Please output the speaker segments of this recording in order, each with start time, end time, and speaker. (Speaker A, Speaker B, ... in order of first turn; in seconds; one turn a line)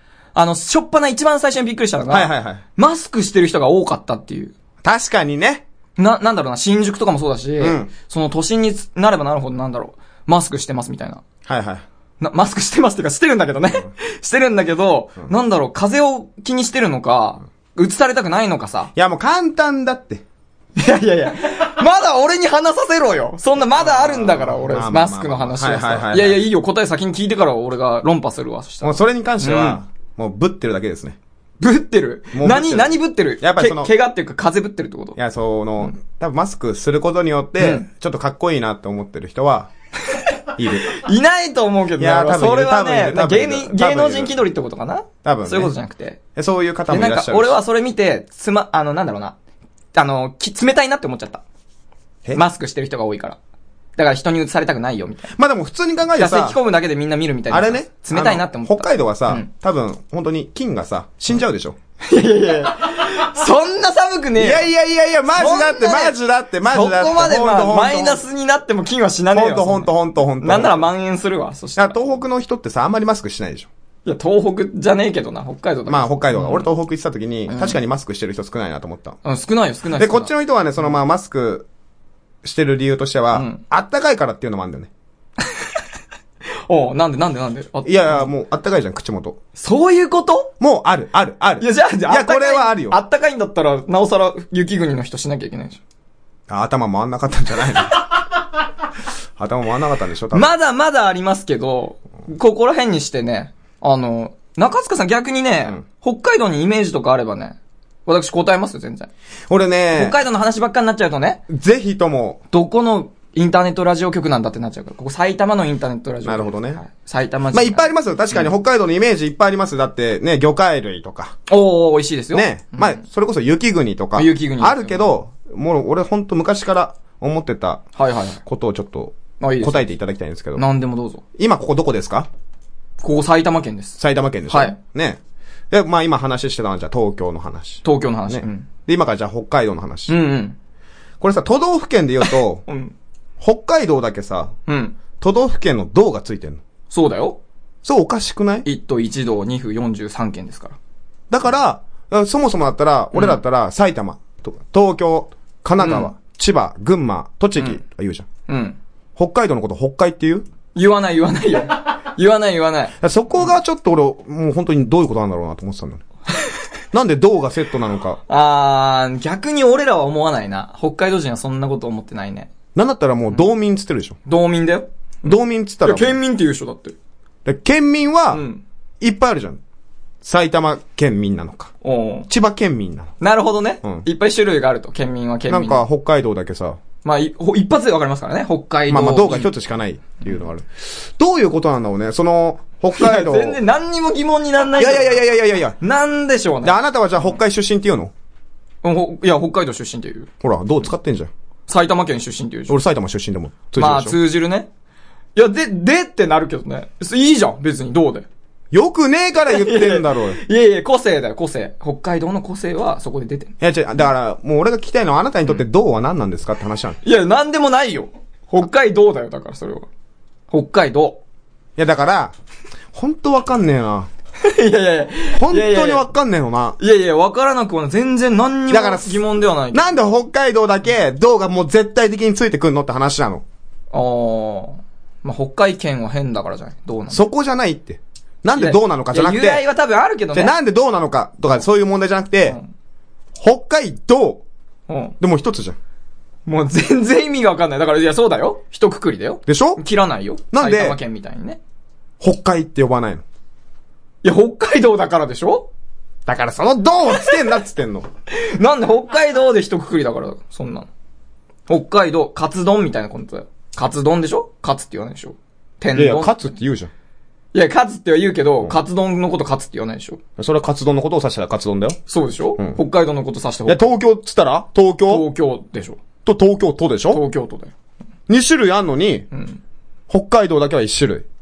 Speaker A: 0.3-4.5
Speaker B: 2.1-2.6
Speaker B: 4.8-5.6
Speaker A: 6.0-11.2
Speaker B: 7.6-7.9
Speaker B: 11.4-11.8
Speaker A: 12.2-18.9
Speaker B: 18.9-20.2
Speaker A: 20.8-29.8
Speaker B: 23.8-26.5
Speaker B: 28.8-31.2
Speaker A: 31.6-35.2
Speaker B: 32.3-33.9
Speaker B: 35.1-39.7
Speaker A: 37.6-37.9
Speaker B: 40.5-41.0
Speaker A: 40.9-46.2
Speaker B: 42.0-44.4
Speaker B: 45.2-45.8
Speaker B: 46.3-47.6
Speaker A: 46.9-49.3
Speaker A: 49.9-51.4
Speaker A: 52.3-53.4
Speaker A: 54.0-55.3
Speaker B: 55.3-56.6
Speaker A: 56.1-59.5
Speaker B: 57.5-61.8
Speaker A: 62.0-64.7
Speaker B: 64.4-68.2
Speaker A: 65.3-66.2
Speaker A: 66.7-72.0
Speaker B: 69.3-70.9
Speaker B: 71.8-73.7
Speaker A: 74.0-76.7
Speaker B: 75.9-79.2
Speaker A: 77.5-77.8
Speaker A: 79.2-80.3
Speaker B: 79.9-81.7
Speaker B: 82.4-84.9
Speaker A: 83.3-83.6
Speaker A: 86.7-88.3
Speaker B: 87.8-89.4
Speaker A: 89.6-90.5
Speaker B: 90.6-93.0
Speaker A: 91.6-95.8
Speaker B: 96.5-98.0
Speaker B: 99.4-100.5
Speaker A: 100.3-109.1
Speaker B: 109.5-110.2
Speaker A: 109.9-111.4
Speaker B: 111.5-112.4
Speaker A: 112.5-118.5
Speaker B: 116.2-116.8
Speaker B: 117.5-121.3
Speaker A: 121.5-123.0
Speaker B: 122.3-127.9
Speaker A: 124.1-125.1
Speaker A: 128.0-128.4
Speaker B: 128.4-130.7
Speaker A: 129.4-129.8
Speaker A: 130.5-131.2
Speaker B: 131.3-132.3
Speaker A: 133.0-134.0
Speaker B: 134.0-135.2
Speaker A: 134.5-134.8
Speaker B: 135.7-140.2
Speaker A: 137.8-138.7
Speaker A: 140.1-140.6
Speaker B: 141.2-142.6
Speaker A: 142.7-142.9
Speaker B: 143.4-144.5
Speaker A: 144.7-144.9
Speaker B: 145.2-146.6
Speaker A: 146.9-147.4
Speaker B: 147.8-148.7
Speaker A: 148.6-150.8
Speaker B: 151.3-158.3
Speaker A: 153.1-153.4
Speaker A: 155.8-156.1
Speaker A: 158.5-158.8
Speaker B: 159.2-160.4
Speaker A: 160.7-162.9
Speaker B: 163.0-166.0
Speaker B: 166.9-168.2
Speaker A: 168.3-172.5
Speaker B: 172.7-174.2
Speaker A: 174.2-176.9
Speaker B: 175.2-176.2
Speaker B: 177.4-178.4
Speaker A: 178.3-178.6
Speaker B: 179.0-179.6
Speaker B: 180.2-181.7
Speaker A: 181.8-182.3
Speaker B: 182.3-183.1
Speaker A: 183.2-185.8
Speaker B: 185.5-186.8
Speaker A: 187.0-189.5
Speaker B: 188.9-193.6
Speaker A: 192.9-195.2
Speaker B: 194.7-195.8
Speaker A: 195.8-196.8
Speaker B: 196.6-198.1
Speaker A: 198.8-200.3
Speaker B: 200.4-201.3
Speaker A: 201.7-202.8
Speaker B: 202.7-204.2
Speaker A: 203.8-204.7
Speaker A: 205.3-208.2
Speaker B: 208.7-210.4
Speaker A: 209.4-213.5
Speaker B: 213.6-217.0
Speaker A: 217.0-219.9
Speaker A: 220.5-221.2
Speaker B: 221.8-222.3
Speaker B: 222.9-224.1
Speaker A: 224.4-226.1
Speaker B: 225.3-226.8
Speaker A: 226.8-229.9
Speaker B: 228.7-233.4
Speaker A: 233.9-237.3
Speaker B: 237.1-239.7
Speaker A: 238.6-240.5
Speaker B: 240.3-242.6
Speaker B: 243.4-244.4
Speaker A: 244.9-245.1
Speaker B: 245.2-245.8
Speaker A: 246.5-251.6
Speaker B: 249.4-249.8
Speaker B: 250.5-251.0
Speaker B: 252.2-253.2
Speaker A: 254.2-255.7
Speaker B: 256.2-258.1
Speaker A: 258.3-260.9
Speaker A: 261.7-266.4
Speaker B: 265.9-266.9
Speaker A: 267.5-270.2
Speaker B: 270.4-272.0
Speaker A: 272.1-273.9
Speaker B: 273.6-275.3
Speaker A: 275.1-276.0
Speaker B: 276.2-277.2
Speaker A: 277.1-277.7
Speaker B: 278.3-279.3
Speaker A: 279.3-279.6
Speaker B: 280.1-281.2